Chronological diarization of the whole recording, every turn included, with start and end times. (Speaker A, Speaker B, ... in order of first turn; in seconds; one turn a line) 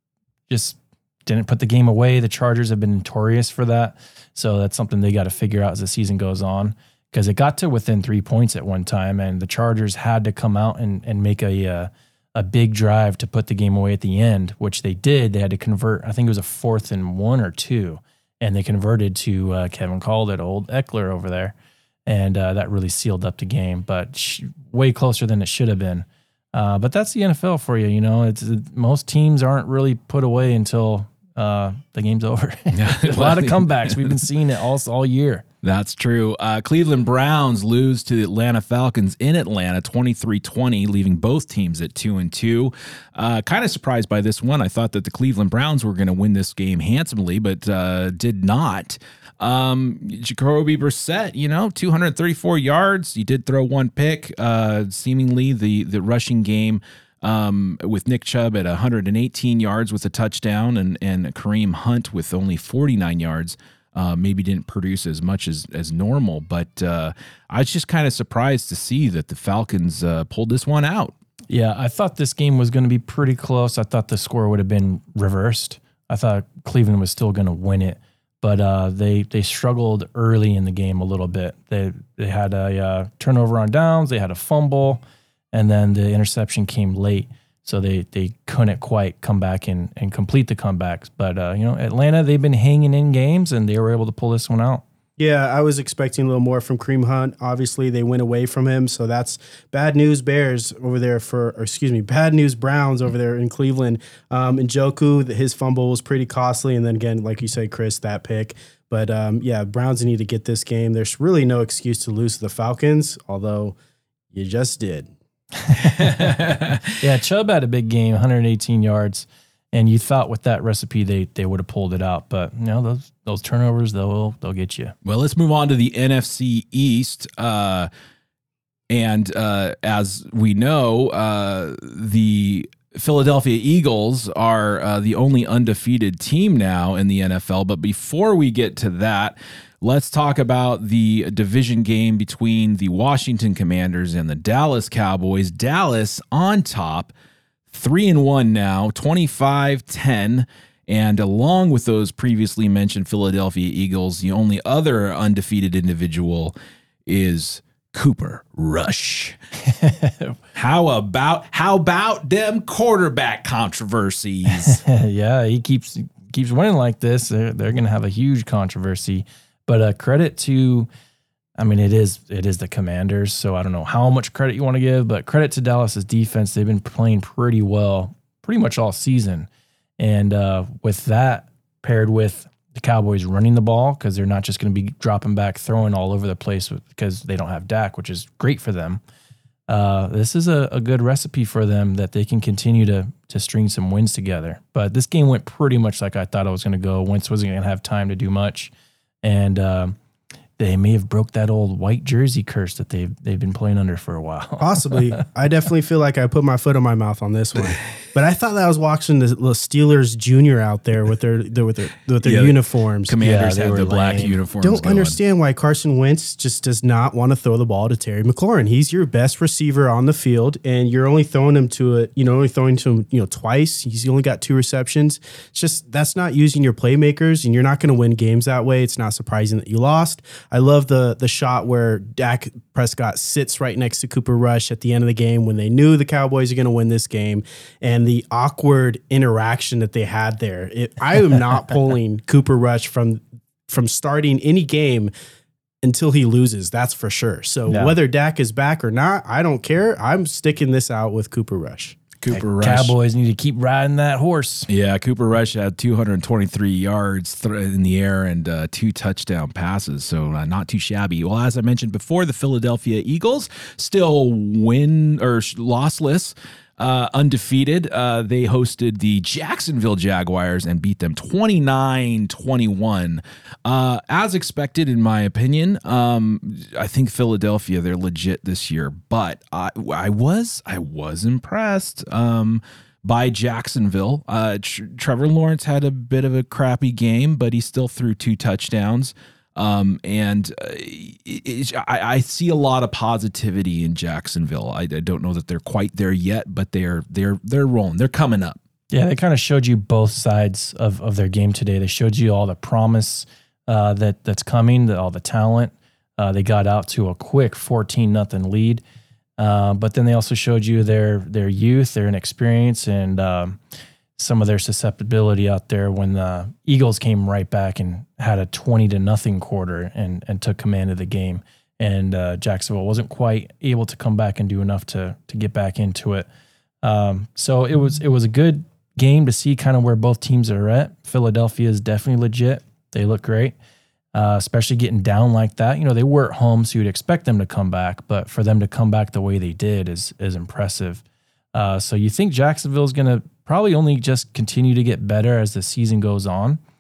Speaker A: 0.5-21.6
Speaker A: 22.1-35.5
Speaker B: 32.7-34.2
Speaker B: 35.6-71.2
Speaker A: 71.5-85.0
Speaker A: 85.5-94.8
Speaker C: 95.2-113.8
Speaker C: 114.3-115.1
Speaker A: 115.7-116.4
Speaker B: 116.0-116.9
Speaker A: 117.0-125.0
Speaker B: 125.0-127.9
Speaker B: 128.9-147.1
Speaker B: 147.7-156.5
Speaker B: 157.1-159.4
Speaker A: 159.7-160.4
Speaker B: 160.5-164.8
Speaker A: 164.6-170.9
Speaker A: 171.6-189.0
Speaker A: 189.7-198.7
Speaker A: 199.2-200.0
Speaker A: 200.6-205.2
Speaker C: 204.6-213.2
Speaker B: 212.2-215.2
Speaker A: 213.2-214.4
Speaker C: 214.6-245.1
Speaker C: 245.8-252.0
Speaker A: 247.7-247.9
Speaker B: 252.2-252.9
Speaker A: 252.3-254.7
Speaker B: 254.7-298.6
Speaker A: 298.9-308.8
Speaker A: 309.4-313.6
Speaker A: 314.2-326.3
Speaker A: 326.8-333.6
Speaker A: 334.1-341.0
Speaker A: 341.5-346.6